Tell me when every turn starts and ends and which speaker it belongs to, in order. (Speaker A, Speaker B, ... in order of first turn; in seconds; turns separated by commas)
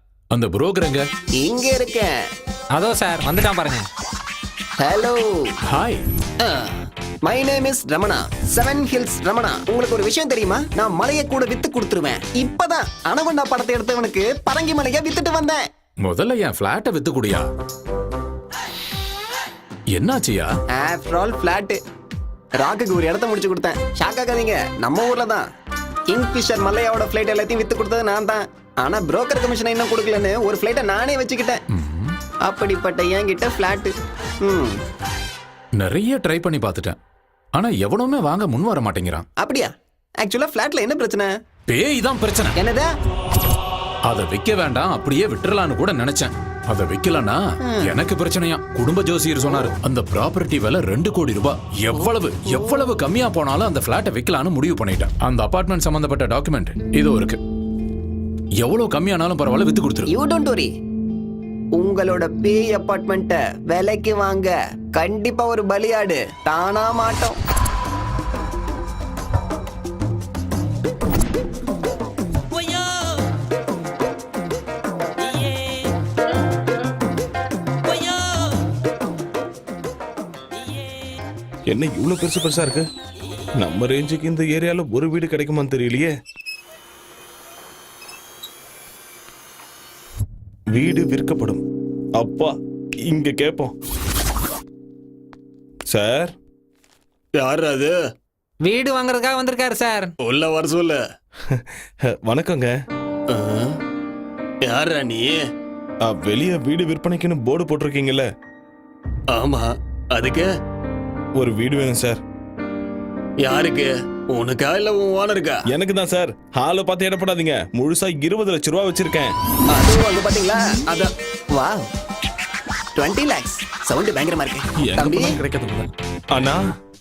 Speaker A: 0.3-1.1, Speaker B: 1.4-2.1, Speaker C: 2.8-3.9, Speaker B: 4.8-5.3, Speaker A: 5.7-6.0, Speaker B: 6.4-15.6, Speaker A: 16.0-17.4, Speaker A: 20.0-20.5, Speaker B: 20.8-21.8, Speaker B: 22.6-25.4, Speaker B: 26.1-31.6, Speaker A: 31.7-32.1, Speaker B: 32.5-33.9, Speaker B: 34.5-34.8, Speaker A: 35.8-37.0, Speaker A: 37.5-39.3, Speaker B: 39.4-41.3, Speaker A: 41.7-42.6, Speaker B: 42.6-42.9, Speaker A: 44.1-57.4, Speaker B: 47.7-48.0, Speaker B: 51.9-52.9, Speaker A: 58.6-60.1, Speaker B: 60.1-60.7, Speaker B: 61.8-67.4, Speaker D: 81.7-82.9, Speaker D: 83.6-86.1, Speaker D: 90.7-91.6, Speaker D: 92.2-92.5, Speaker D: 93.1-93.7, Speaker D: 95.9-96.3, Speaker E: 97.4-98.1, Speaker C: 98.6-100.1, Speaker E: 100.2-101.0, Speaker D: 101.5-101.7, Speaker D: 102.2-102.8, Speaker E: 103.3-103.8, Speaker E: 104.6-105.5, Speaker D: 106.0-108.3, Speaker E: 109.3-110.5, Speaker D: 111.4-112.2, Speaker E: 113.4-115.6, Speaker D: 115.7-119.3, Speaker B: 119.7-121.9, Speaker B: 123.0-125.4, Speaker D: 124.8-126.7